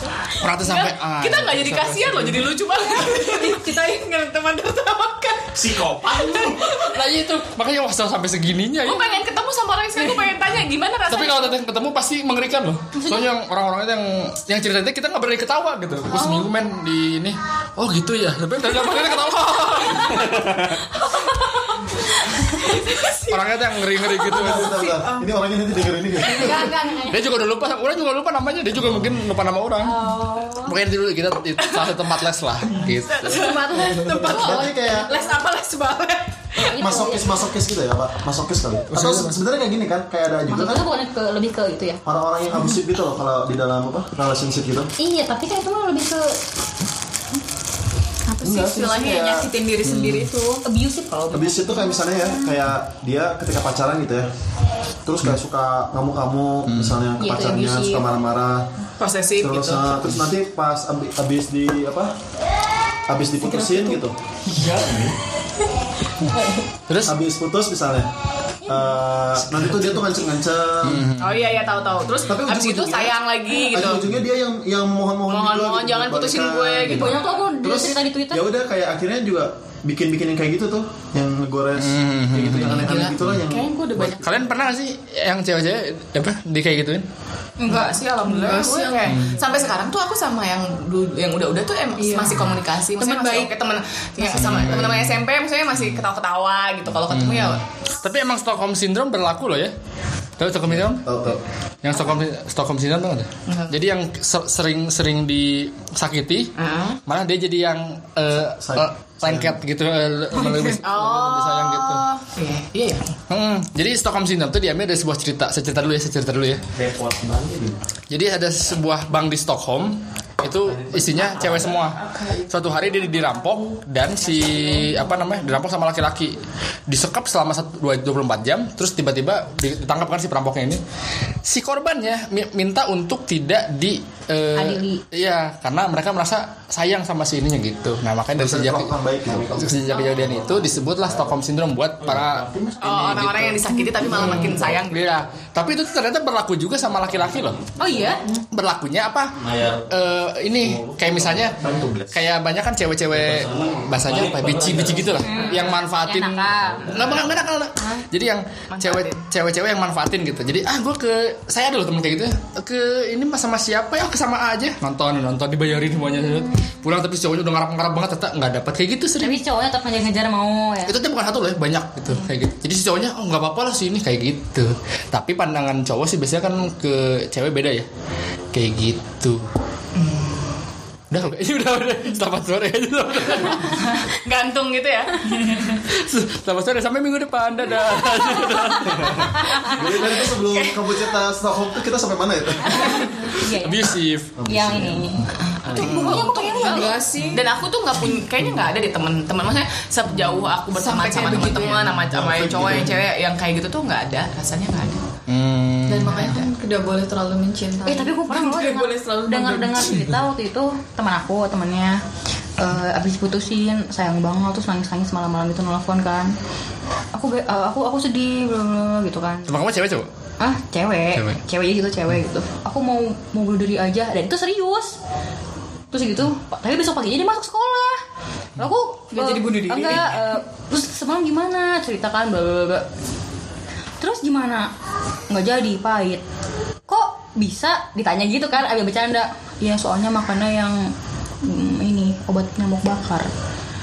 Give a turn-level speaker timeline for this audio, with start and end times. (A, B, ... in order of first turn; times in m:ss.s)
0:00.4-0:02.4 A
0:00.6-0:03.6 B
0:02.9-0:06.9 C
0:05.5-0:06.6 D
0:06.8-0:09.1 A
0:08.8-0:11.6 B
0:10.0-0:10.3 C
0:11.1-0:20.7 A
0:12.9-0:13.3 E
0:16.2-0:16.5 C
0:20.9-0:21.8 C
0:22.4-0:25.3 C
0:23.3-0:24.9 A
0:24.3-0:26.7 F
0:26.2-0:27.2 E
0:26.4-0:27.0 C
0:27.0-0:30.0 A
0:29.8-0:30.8 E
0:30.6-0:33.9 A
0:33.2-0:35.3 E
0:33.2-0:36.7 C
0:34.0-0:35.1 F
0:36.6-0:37.5 E
0:36.7-0:40.9 F
0:38.9-0:39.3 A
0:40.5-0:42.0 E
0:42.0-0:44.9 F
0:45.0-0:46.3 E
0:48.3-0:50.6 C
0:48.4-0:49.5 F
0:49.8-0:50.3 A
0:50.6-0:52.6 E
0:51.3-0:54.3 F
0:55.0-0:58.7 F
0:56.7-0:57.0 A
0:57.2-0:58.1 E
0:59.0-1:00.0 B
0:59.4-1:02.1 F
1:03.1-1:04.2 F
1:03.4-1:04.0 C
1:04.5-1:05.1 D
1:06.9-1:07.2 A
1:07.0-1:08.1 F
1:08.6-1:11.1 F
1:10.8-1:11.6 A
1:11.2-1:14.0 B
1:12.3-1:24.3 F
1:15.3-1:17.2 B
1:16.8-1:18.5 E
1:21.8-1:23.4 A
1:22.6-1:24.6 B
1:24.2-1:27.0 A
1:27.6-1:29.6 C
1:27.7-1:37.6 B
1:29.0-1:29.3 A
1:32.0-1:32.5 C
1:33.0-1:33.5 C
1:34.2-1:34.8 C
1:34.4-1:35.2 A
1:37.1-1:39.7 A
1:40.4-1:41.1 A
1:40.7-1:41.4 F
1:41.8-1:46.5 A
1:43.5-1:43.7 B
1:46.6-1:47.0 B
1:47.1-1:52.0 A
1:48.6-1:49.6 F
1:50.8-1:53.1 B
1:53.3-1:56.6 A
1:56.7-1:57.8 D
1:58.1-2:10.8 A
2:00.4-2:03.8 D
2:04.4-2:05.3 D
2:11.4-2:18.9 A
2:14.6-2:15.0 E
2:18.3-2:19.6 F
2:19.2-2:21.4 D
2:19.6-2:22.4 A
2:22.0-2:23.7 D
2:22.8-2:25.2 B
2:24.1-2:27.6 A
2:24.3-2:24.8 D
2:27.8-2:28.4 E
2:28.5-2:29.4 A
2:29.4-2:29.9 D
2:29.9-2:49.4 A
2:30.6-2:32.2 F
2:33.1-2:35.2 D
2:35.1-2:36.9 E
2:35.2-2:35.7 B
2:36.8-2:37.2 D
2:38.7-2:39.2 B
2:49.2-2:50.9 E
2:50.8-2:57.9 A
2:58.5-2:59.4 A
3:00.0-3:00.5 B
3:01.1-3:03.8 A
3:03.4-3:05.3 B
3:05.3-3:09.3 A
3:09.3-3:09.7 E
3:09.7-3:11.1 B
3:09.7-3:13.0 F
3:12.7-3:13.9 E
3:13.6-3:14.3 A
3:14.4-3:15.1 F
3:14.4-3:17.1 E
3:15.6-3:25.0 B
3:15.7-3:16.3 A
3:15.8-3:17.5 C
3:20.7-3:22.0 C
3:22.1-3:23.0 F
3:25.3-3:26.4 A
3:25.9-3:30.0 C
3:27.8-3:32.0 E
3:32.6-3:36.3 E
3:37.1-3:39.5 E
3:39.4-3:40.1 A
3:40.4-3:45.0 E
3:41.1-3:41.4 A
3:45.9-3:48.0 E
3:48.6-3:52.8 E
3:49.1-3:50.2 C
3:54.0-3:54.7 E
3:55.3-3:56.2 E
3:56.9-4:00.8 E
4:01.4-4:03.3 E